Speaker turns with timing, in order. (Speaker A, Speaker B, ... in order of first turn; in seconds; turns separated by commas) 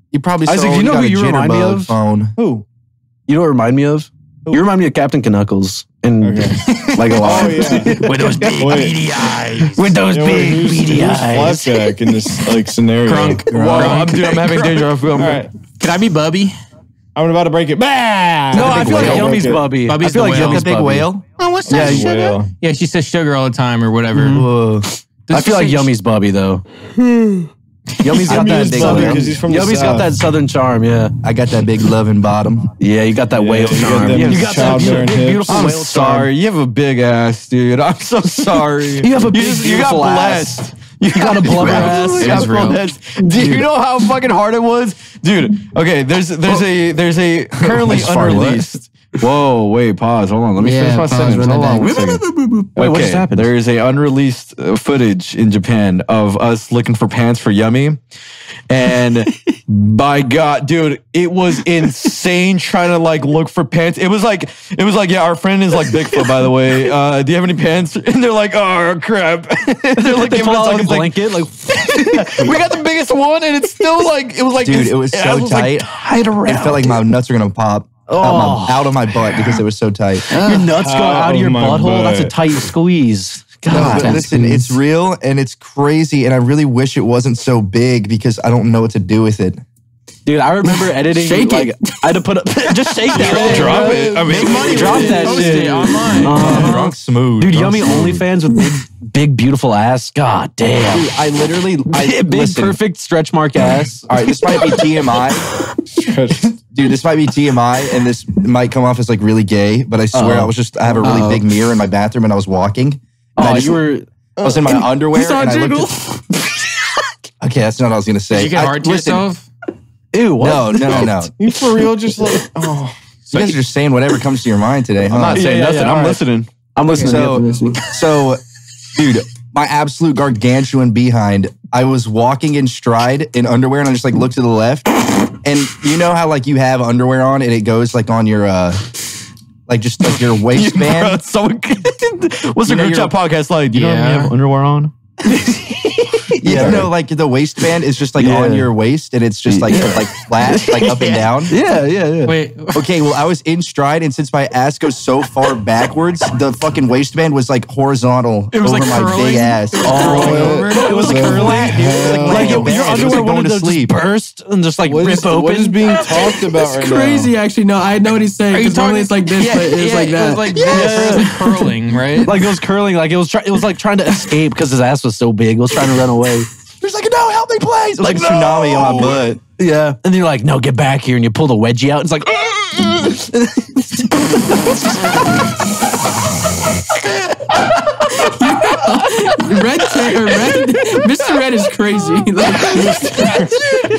Speaker A: 0.1-2.4, Speaker B: 0.5-2.0, Speaker C: 2.4-2.6, Speaker B: 3.3-11.9, Speaker C: 6.2-6.6, Speaker C: 7.2-8.1, Speaker D: 8.4-9.8, Speaker C: 8.6-9.0, Speaker C: 10.1-14.1, Speaker E: 13.1-15.4, Speaker D: 13.5-15.0, Speaker C: 15.2-15.5, Speaker D: 15.6-16.6, Speaker C: 17.1-19.7, Speaker B: 18.5-21.1, Speaker A: 18.5-19.4, Speaker D: 19.0-19.3, Speaker D: 19.9-20.6, Speaker A: 20.3-21.2, Speaker D: 21.4-24.5, Speaker C: 21.7-22.5, Speaker B: 21.7-22.1, Speaker B: 24.1-24.4, Speaker A: 24.1-24.9, Speaker D: 25.3-25.9, Speaker B: 25.3-26.6, Speaker C: 27.0-27.5, Speaker B: 28.0-31.1, Speaker A: 28.2-29.3, Speaker C: 28.2-30.2, Speaker A: 31.2-32.7, Speaker B: 32.8-36.3, Speaker C: 33.3-35.8, Speaker E: 34.0-34.9, Speaker E: 35.5-58.0, Speaker B: 39.0-42.6, Speaker D: 41.5-42.8, Speaker A: 43.4-43.6, Speaker A: 47.6-48.6, Speaker B: 48.1-48.6, Speaker F: 50.6-52.7, Speaker B: 52.8-53.5, Speaker E: 58.7-71.2, Speaker B: 70.0-72.6, Speaker E: 71.7-75.8, Speaker A: 74.6-75.9, Speaker B: 75.8-77.0, Speaker A: 76.4-80.3, Speaker B: 78.1-79.5, Speaker B: 80.3-84.4, Speaker F: 80.3-80.7, Speaker C: 80.7-82.3, Speaker A: 83.7-89.6, Speaker F: 83.7-84.8, Speaker B: 90.3-101.1, Speaker F: 90.7-92.2, Speaker C: 93.1-95.7, Speaker E: 93.2-95.4, Speaker A: 94.3-98.2, Speaker D: 94.3-96.9, Speaker A: 100.9-102.8, Speaker B: 101.9-104.1, Speaker A: 104.1-105.5, Speaker C: 105.9-106.5, Speaker A: 106.7-113.8, Speaker B: 110.1-110.5, Speaker F: 111.0-111.4, Speaker B: 113.4-115.8, Speaker A: 114.4-115.9, Speaker A: 117.4-119.2, Speaker D: 118.3-119.4, Speaker B: 120.1-121.1, Speaker A: 120.4-121.3, Speaker C: 121.4-123.0, Speaker A: 123.3-125.5, Speaker E: 125.0-126.5, Speaker B: 125.3-126.2, Speaker B: 126.7-127.4, Speaker F: 126.8-127.9, Speaker A: 127.0-128.4, Speaker A: 128.9-138.9, Speaker A: 139.7-141.2, Speaker E: 140.5-144.9, Speaker A: 142.6-143.2, Speaker D: 143.7-144.3, Speaker B: 145.4-145.7, Speaker B: 146.3-146.9, Speaker A: 146.4-151.6, Speaker B: 148.2-148.7, Speaker B: 149.5-152.4, Speaker D: 152.3-152.8, Speaker A: 152.8-164.0, Speaker D: 158.5-160.9, Speaker B: 159.8-165.9, Speaker C: 159.9-162.7, Speaker C: 164.8-167.3, Speaker F: 166.0-171.8, Speaker D: 168.5-172.3, Speaker B: 170.7-171.3, Speaker B: 172.2-176.5, Speaker A: 176.8-179.4, Speaker E: 178.0-179.0, Speaker B: 179.6-183.9, Speaker B: 184.5-184.8, Speaker F: 188.2-193.7, Speaker C: 192.7-193.6